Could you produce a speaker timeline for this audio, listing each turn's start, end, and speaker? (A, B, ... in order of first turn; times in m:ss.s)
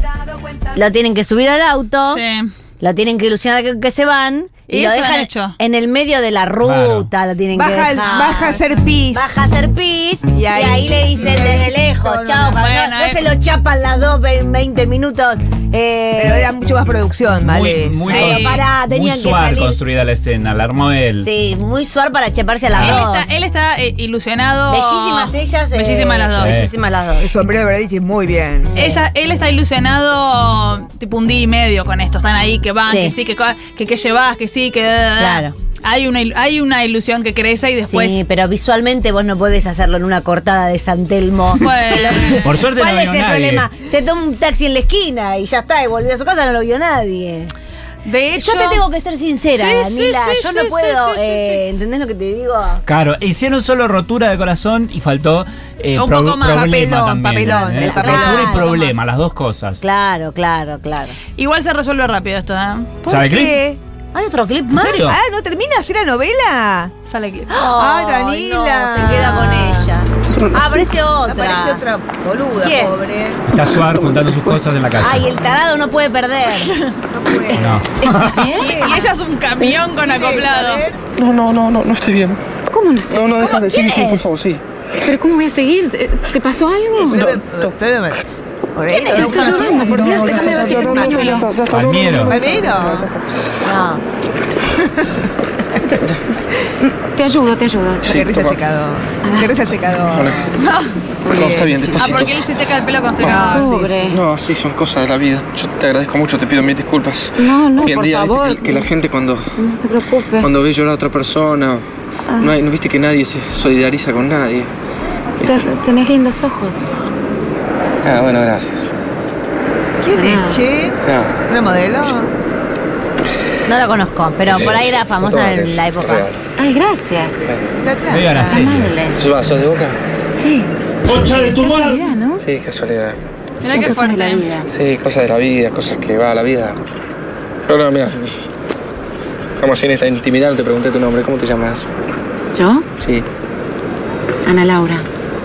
0:00.7-0:02.2 A
0:02.1-0:02.5 B
0:02.8-0:08.6 A
0:04.7-0:05.6 B
0:06.6-0:07.1 C
0:07.5-0:09.5 D
0:08.1-0:08.5 B
0:09.1-0:16.5 A
0:10.3-0:12.6 D
0:12.5-0:13.2 B
0:16.2-0:18.3 D
0:17.4-0:21.3 C
0:18.1-0:18.6 B
0:18.1-0:19.8 A
0:21.2-0:23.3 A
0:22.7-0:23.0 C
0:22.8-0:26.6 B
0:24.7-0:27.3 A
0:26.4-0:26.7 C
0:27.2-0:29.0 D
0:28.7-0:38.2 B
0:32.9-0:33.1 A
0:35.2-0:35.5 A
0:37.8-0:47.5 A
0:41.6-0:42.4 B
0:42.4-0:43.7 C
0:48.0-0:48.8 B
0:48.4-0:52.8 A
0:49.5-0:51.6 B
0:52.8-0:59.8 C
0:56.0-0:56.9 B
0:56.5-0:58.8 D
0:57.5-0:59.0 A
0:59.8-1:01.2 A
1:01.4-1:03.1 B
1:03.0-1:03.8 D
1:03.1-1:03.6 C
1:04.1-1:05.1 A
1:04.7-1:05.2 C
1:05.0-1:06.9 D
1:07.1-1:07.6 B
1:07.5-1:11.8 A
1:07.5-1:09.9 D
1:10.3-1:10.8 E
1:11.2-1:13.4 D
1:12.6-1:13.0 A
1:13.5-1:15.2 C
1:13.6-1:14.6 E
1:15.0-1:16.7 A
1:17.1-1:17.8 D
1:17.5-1:18.5 C
1:18.2-1:18.7 F
1:18.5-1:20.8 B
1:18.5-1:19.1 D
1:20.0-1:21.0 D
1:21.2-1:22.4 E
1:22.7-1:24.3 F
1:23.1-1:24.6 E
1:25.0-1:27.4 F
1:27.0-1:27.7 E
1:27.0-1:28.2 D
1:28.7-1:31.5 D
1:28.9-1:29.9 A
1:29.0-1:31.4 F
1:29.2-1:33.5 E
1:31.7-1:32.4 C
1:32.2-1:33.1 D
1:33.6-1:34.0 A
1:35.0-1:35.3 D
1:35.9-1:36.2 E
1:37.0-1:38.3 F
1:38.0-1:38.6 E
1:38.0-1:40.5 D
1:39.2-1:39.6 F
1:40.1-1:40.5 E
1:40.6-1:40.9 B
1:41.2-1:42.3 D
1:41.2-1:42.6 E
1:42.0-1:43.7 B
1:43.2-1:49.5 E
1:43.2-1:44.0 D
1:43.4-1:44.2 F
1:47.4-1:48.9 F
1:49.6-1:50.6 F
1:50.4-1:51.8 E
1:52.3-1:52.6 F
1:52.4-1:54.7 E
1:55.4-1:56.9 F
1:58.0-1:58.9 E
2:00.0-2:02.3 D
2:00.1-2:00.6 F
2:01.0-2:01.3 E
2:03.6-2:06.3 A
2:04.4-2:06.4 E
2:06.6-2:07.5 F
2:07.8-2:08.7 D
2:08.1-2:09.0 C
2:08.3-2:09.2 F
2:09.1-2:10.0 E
2:10.3-2:12.4 F
2:12.4-2:13.2 E
2:13.6-2:14.4 B
2:13.7-2:14.7 F
2:14.7-2:16.8 E
2:17.6-2:18.3 E
2:19.6-2:21.9 E
2:22.5-2:22.8 F
2:23.0-2:23.2 E
2:24.4-2:25.0 F